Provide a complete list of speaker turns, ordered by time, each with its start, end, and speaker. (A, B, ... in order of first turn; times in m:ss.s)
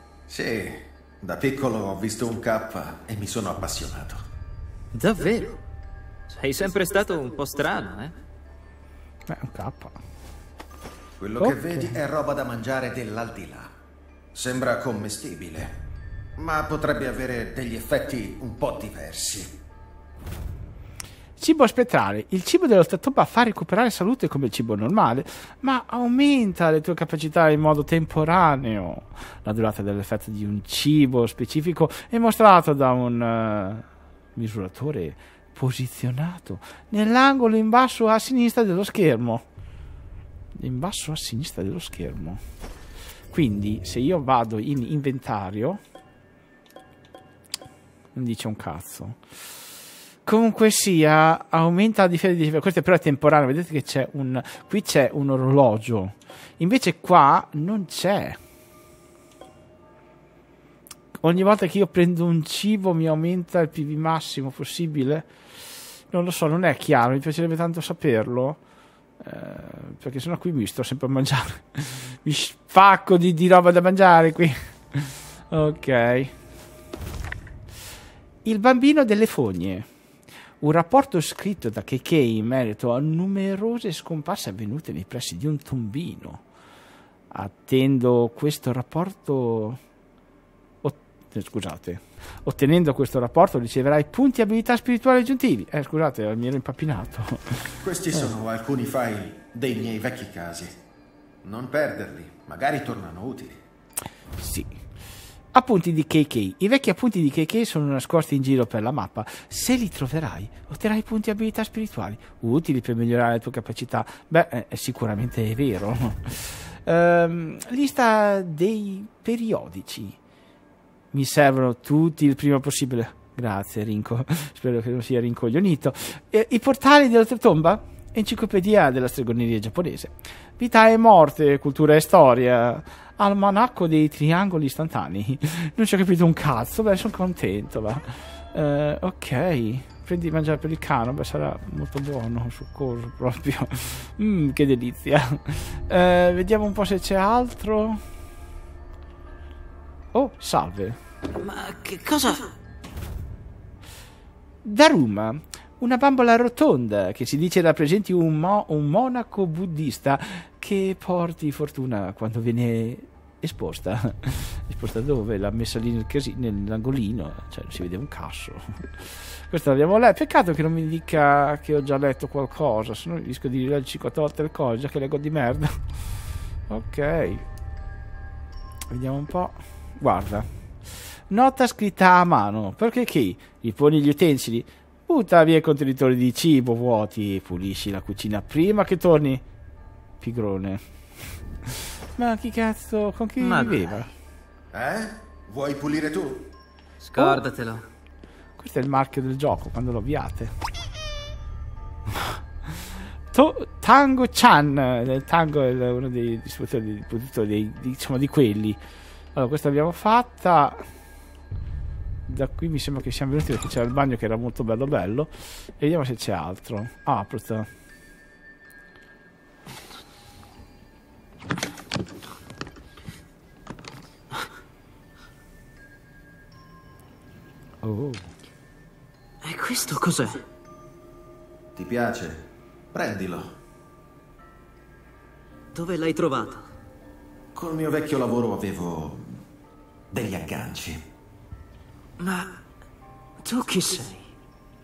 0:00.3-0:04.2 A
0:04.9-0:05.6 B
0:06.3-0:08.2 B
0:09.3-0:10.0 C
0:11.2-0:13.7 A
0:11.4-0:12.0 C
0:14.3-0:15.8 A
0:16.4-0:19.6 A
0:21.4-0:39.4 C
0:40.6-0:42.4 C
0:43.3-0:45.8 C
0:48.2-0:49.2 C
0:50.2-0:58.4 C
1:01.2-1:05.3 C
1:06.1-1:08.6 C
1:09.2-1:16.3 C
1:18.4-1:19.9 C
1:20.6-1:26.4 C
1:27.3-1:29.8 C
1:30.8-1:37.8 C
1:37.8-1:40.8 A
1:41.4-1:43.6 A
1:44.4-1:44.8 C
1:45.5-2:00.2 C
2:01.1-2:28.0 C
2:30.1-2:31.0 C
2:31.4-2:32.5 B
2:34.6-2:55.8 C
2:56.7-2:57.4 C
2:58.9-3:00.5 C
3:01.3-3:09.4 C
3:10.2-3:10.8 C
3:11.7-3:14.1 C
3:13.4-3:14.0 B
3:14.7-3:16.5 A
3:17.0-3:17.8 B
3:18.6-3:20.5 C
3:22.1-3:28.8 C
3:29.3-3:30.8 C
3:32.3-3:37.7 C
3:47.8-3:48.3 C
3:49.4-3:50.4 B
3:51.8-3:53.6 A
3:55.7-3:56.7 B
3:57.5-3:59.4 A
4:00.1-4:01.0 A
4:02.2-4:02.5 B
4:03.4-4:04.3 B